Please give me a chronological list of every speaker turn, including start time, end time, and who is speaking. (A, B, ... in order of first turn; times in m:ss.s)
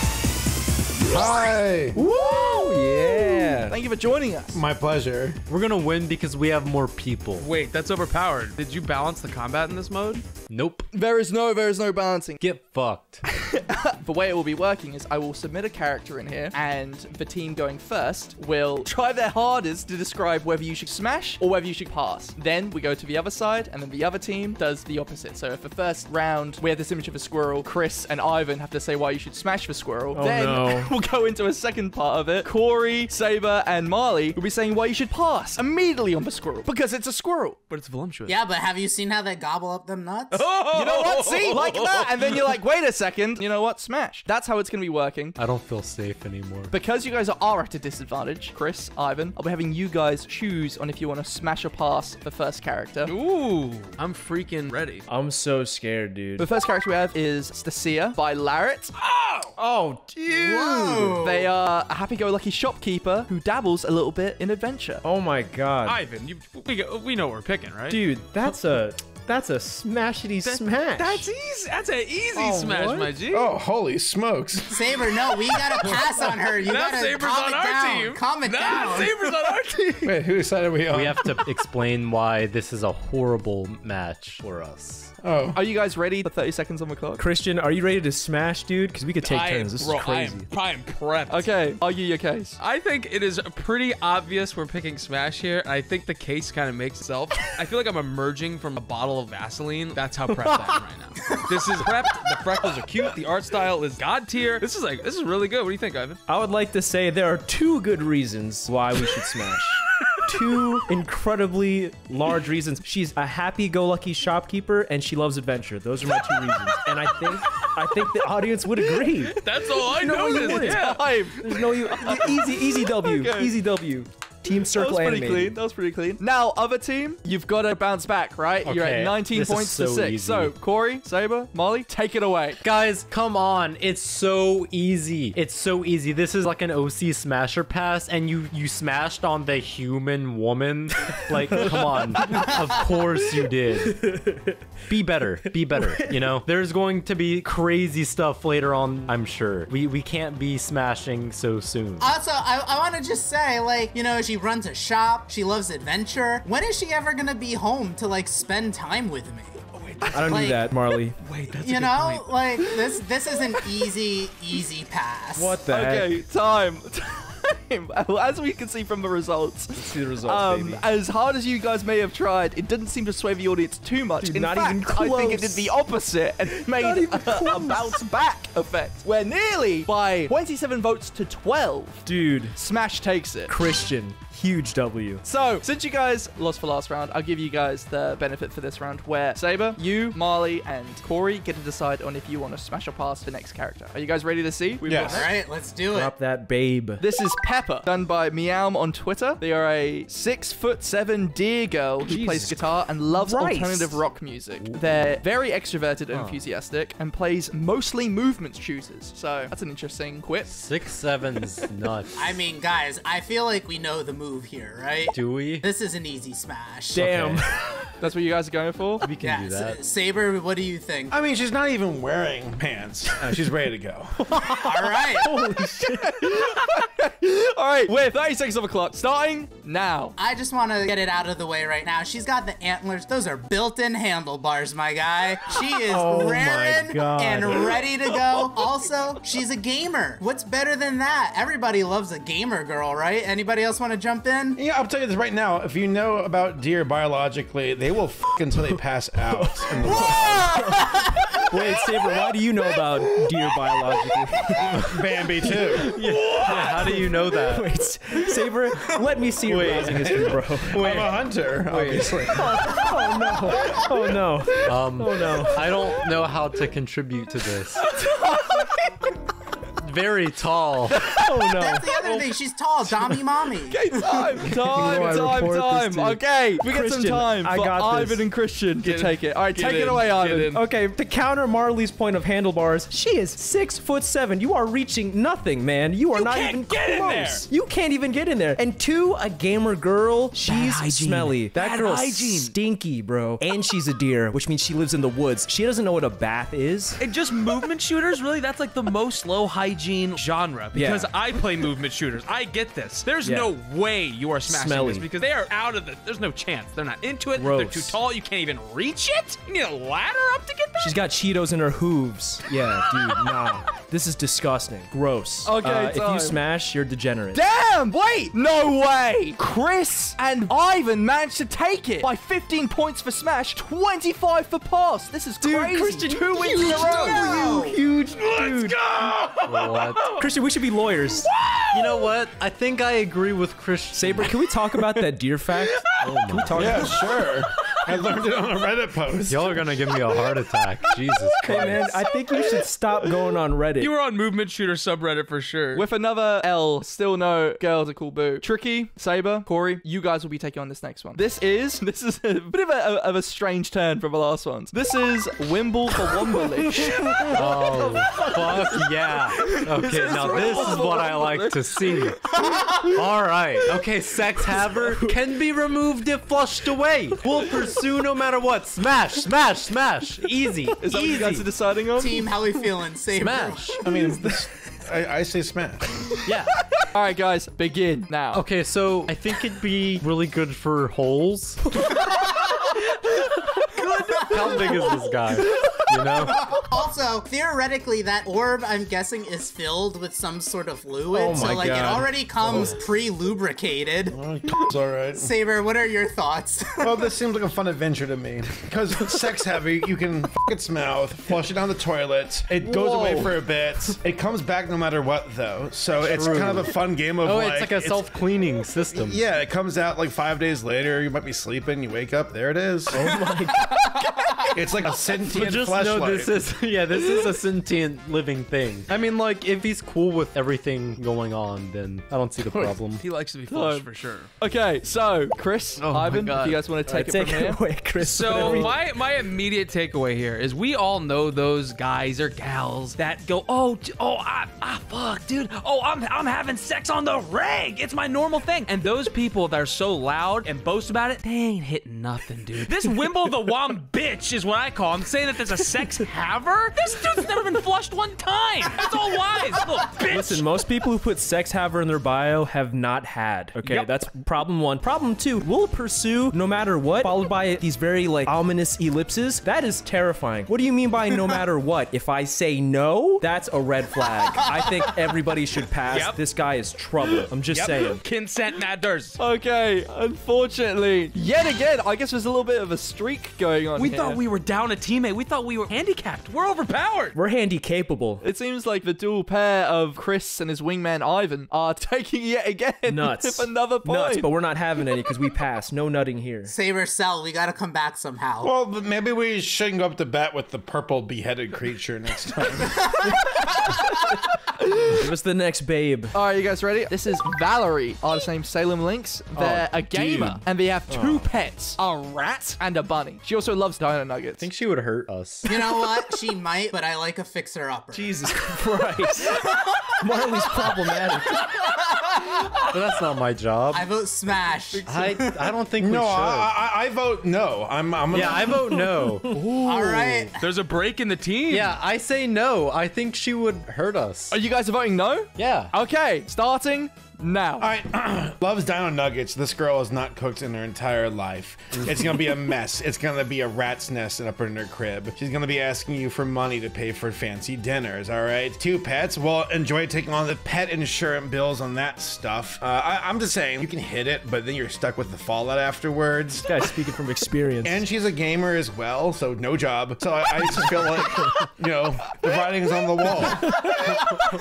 0:01.0-0:02.0 A
0:01.9-0:03.8 B
0:03.7-0:04.6 C
0:04.5-0:05.4 A
0:05.5-0:07.5 D
0:07.4-0:10.3 E
0:10.5-0:10.8 D
0:10.9-0:12.4 C
0:12.4-0:13.2 D
0:13.2-0:37.6 C
0:30.1-0:30.9 B
0:37.7-0:38.4 E
0:38.2-0:40.5 F
0:40.3-0:42.4 E
0:40.7-0:45.4 C
0:45.4-0:46.7 D
0:46.7-0:53.1 C
0:53.0-0:55.0 E
0:55.1-0:56.4 B
0:56.4-0:58.9 C
0:59.0-0:59.5 E
0:59.6-1:01.2 B
1:00.3-1:01.5 F
1:01.2-1:05.0 C
1:05.0-1:06.0 B
1:05.8-1:08.0 E
1:07.9-1:11.3 B
1:10.4-1:13.4 E
1:12.4-1:13.1 B
1:13.3-1:15.6 A
1:14.7-1:19.1 F
1:16.6-1:20.1 E
1:20.0-1:21.4 A
1:20.9-1:25.1 D
1:25.2-1:25.6 A
1:25.5-1:27.2 C
1:27.2-1:30.5 B
1:29.2-1:31.7 E
1:31.3-1:32.6 C
1:32.6-1:46.2 E
1:46.3-2:00.8 B
1:59.2-2:01.2 E
2:00.4-2:03.6 C
2:01.4-2:05.6 B
2:01.9-2:02.3 E
2:04.7-2:12.6 C
2:08.6-2:10.5 D
2:12.6-2:24.2 D
2:21.6-2:21.9 C
2:22.3-2:22.8 F
2:23.8-2:24.6 B
2:24.9-2:32.1 D
2:25.4-2:26.2 B
2:32.0-2:39.6 F
2:39.7-2:40.5 E
2:40.1-2:41.2 B
2:40.2-2:40.6 F
2:41.2-2:42.4 E
2:41.5-2:45.6 F
2:45.4-2:46.2 B
2:45.7-3:03.6 C
2:49.7-2:50.8 B
2:54.2-2:55.7 B
2:56.8-2:57.9 B
3:02.0-3:02.6 B
3:03.5-3:05.2 B
3:05.2-3:15.3 C
3:14.8-3:15.2 A
3:15.1-3:16.1 F
3:15.9-3:17.0 B
3:17.0-3:30.5 C
3:22.1-3:24.0 B
3:26.1-3:26.4 D
3:30.4-3:32.3 D
3:32.2-3:37.1 F
3:35.1-3:35.6 D
3:36.9-3:37.6 B
3:37.0-3:37.4 D
3:38.0-3:39.1 C
3:39.0-3:39.8 D
3:39.2-3:41.2 F
3:41.1-3:44.5 A
3:44.2-3:46.4 B
3:44.6-3:45.4 F
3:45.8-3:50.1 C
3:50.2-4:04.6 F
3:56.1-3:57.5 A
3:56.2-3:57.7 D
4:04.6-4:10.7 A
4:09.8-4:15.6 B
4:09.8-4:11.4 F
4:14.8-4:15.9 A
4:15.7-4:17.7 D
4:16.0-4:17.0 E
4:17.3-4:21.0 B
4:19.4-4:21.1 D
4:19.8-4:22.7 A
4:21.7-4:25.6 B
4:24.6-4:27.8 D
4:27.8-4:29.1 E
4:29.8-4:31.1 D
4:30.9-4:31.2 C
4:31.1-4:31.9 B
4:31.5-4:34.5 F
4:33.7-4:40.5 C
4:34.6-4:38.2 B
4:38.8-4:40.6 E
4:40.5-4:57.0 B
4:46.1-4:47.5 E
4:50.4-4:52.5 E
4:57.0-5:10.9 E
5:00.7-5:01.1 B
5:03.2-5:03.5 B
5:04.4-5:05.1 B
5:07.4-5:08.0 B
5:10.8-5:17.4 B
5:15.4-5:16.4 C
5:17.3-5:27.4 C
5:25.4-5:28.8 B
5:26.7-5:27.8 F
5:28.1-5:30.2 E
5:29.4-5:30.0 D
5:30.2-5:31.3 B
5:31.2-5:32.1 E
5:31.7-5:34.4 D
5:33.9-5:37.0 B
5:36.0-5:36.9 D
5:36.5-5:40.0 A
5:39.3-5:42.0 D
5:41.4-5:43.9 B
5:43.8-5:45.8 E
5:45.7-5:57.3 C
5:56.8-6:02.2 D
5:58.1-6:02.2 C
6:02.4-6:03.1 F
6:02.7-6:11.4 D
6:04.8-6:05.1 B
6:10.8-6:12.3 C
6:12.0-6:13.8 F
6:13.2-6:13.8 D
6:13.8-6:16.0 A
6:16.2-6:16.5 D
6:16.8-6:18.4 C
6:18.3-6:21.6 D
6:21.8-6:22.8 F
6:23.6-6:26.4 D
6:24.0-6:25.1 F
6:26.1-6:34.2 F
6:31.1-6:32.1 B
6:32.4-6:32.8 A
6:34.1-6:35.3 A
6:35.2-6:37.0 F
6:36.8-6:48.0 A
6:42.6-6:43.4 C
6:46.0-6:46.7 D
6:47.2-6:49.2 D
6:48.9-6:53.1 A
6:52.9-6:53.6 B
6:53.6-6:54.9 F
6:54.5-6:56.3 A
6:55.2-7:03.0 D
7:02.4-7:02.8 A
7:03.0-7:04.3 E
7:03.5-7:07.6 C
7:05.8-7:06.6 E
7:06.0-7:06.3 D
7:06.9-7:08.8 B
7:08.0-7:30.4 E
7:08.4-7:08.7 C
7:30.1-7:48.0 B
7:33.6-7:33.9 E
7:45.9-7:46.2 E
7:47.5-7:49.2 E
7:49.2-7:54.2 C
7:53.8-7:57.2 E
7:57.1-7:58.2 B
7:58.2-8:04.3 C
8:02.9-8:06.5 B
8:06.5-8:08.5 F
8:08.4-8:13.2 A
8:12.7-8:13.9 F
8:14.9-8:16.2 B
8:16.1-8:24.4 C
8:19.4-8:20.4 D
8:20.9-8:21.2 B
8:21.8-8:22.5 E
8:24.4-8:25.8 D
8:25.5-8:28.3 F
8:27.9-8:29.4 B
8:29.2-8:29.9 F
8:30.0-8:31.5 B
8:31.4-8:32.8 F
8:32.6-8:33.9 D
8:33.7-8:35.6 F
8:34.8-8:36.5 D
8:35.8-8:38.8 A
8:38.1-8:39.4 D
8:39.3-8:41.8 E
8:39.6-8:40.4 F
8:41.5-8:44.4 D
8:44.3-8:47.7 C
8:45.4-8:45.7 D
8:47.6-9:06.5 A
9:06.5-9:07.8 B
9:07.6-9:13.6 A